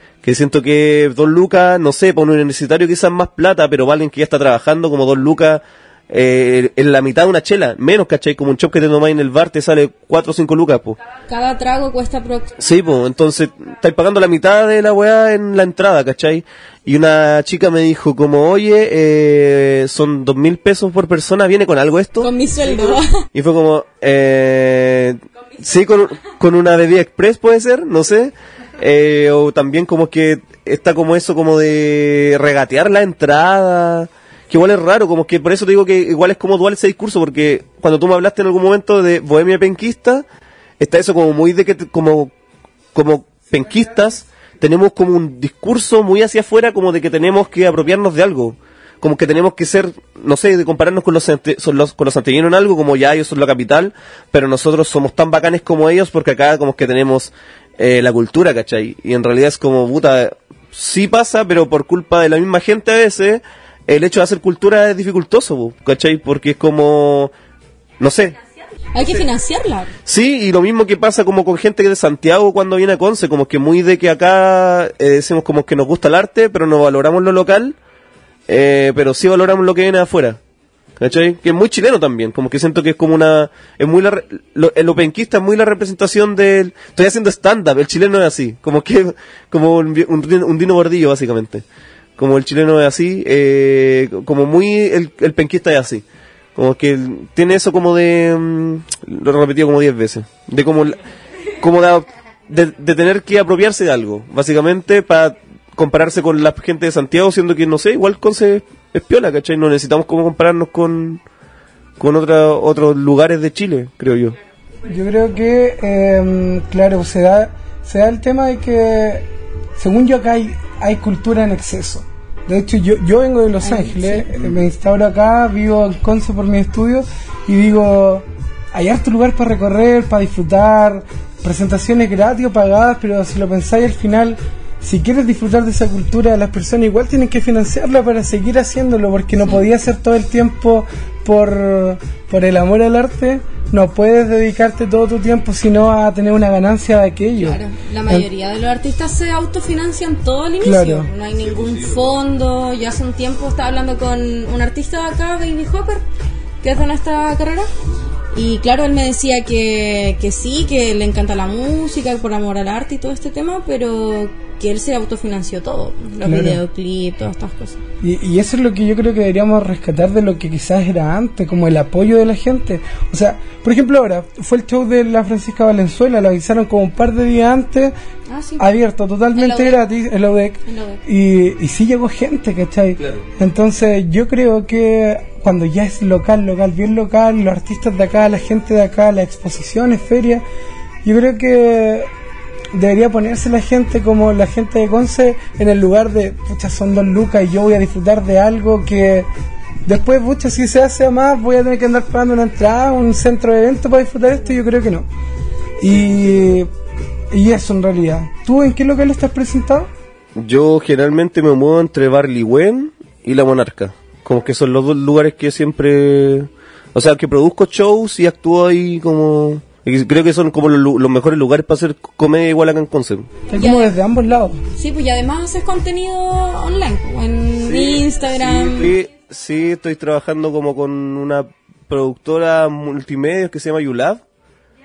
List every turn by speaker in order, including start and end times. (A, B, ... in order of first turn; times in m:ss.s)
0:00.2-0:11.0 A
0:11.3-0:12.6 B
0:12.6-0:40.2 A
0:22.2-0:23.3 B
0:40.8-0:42.3 A
0:42.9-1:07.3 A
1:08.0-1:08.4 A
1:08.9-1:09.9 B
1:09.0-1:09.3 A
1:10.1-1:17.8 A
1:18.5-1:20.4 A
1:21.0-1:31.6 A
1:32.2-1:41.0 A
1:41.6-1:51.2 A
1:52.0-1:54.4 A
1:54.8-1:59.3 C
1:59.8-2:28.3 C
2:03.6-2:04.3 B
2:27.4-2:36.0 B
2:30.6-2:31.1 C
2:31.4-2:32.1 A
2:36.6-2:37.7 B
2:38.3-2:47.8 B
2:46.2-2:46.6 C
2:48.0-2:57.9 C
2:58.3-2:58.7 B
2:58.6-3:10.4 C
2:59.4-2:59.8 B
3:00.7-3:01.0 B
3:03.0-3:03.3 A
3:11.0-3:12.1 C
3:12.7-3:19.3 C
3:19.8-3:25.1 C
3:25.8-3:26.7 C
3:27.3-3:29.9 C
3:30.4-3:43.3 A
3:43.5-3:44.6 C
3:43.6-3:43.9 B
3:44.8-3:48.9 B
3:47.6-3:54.2 A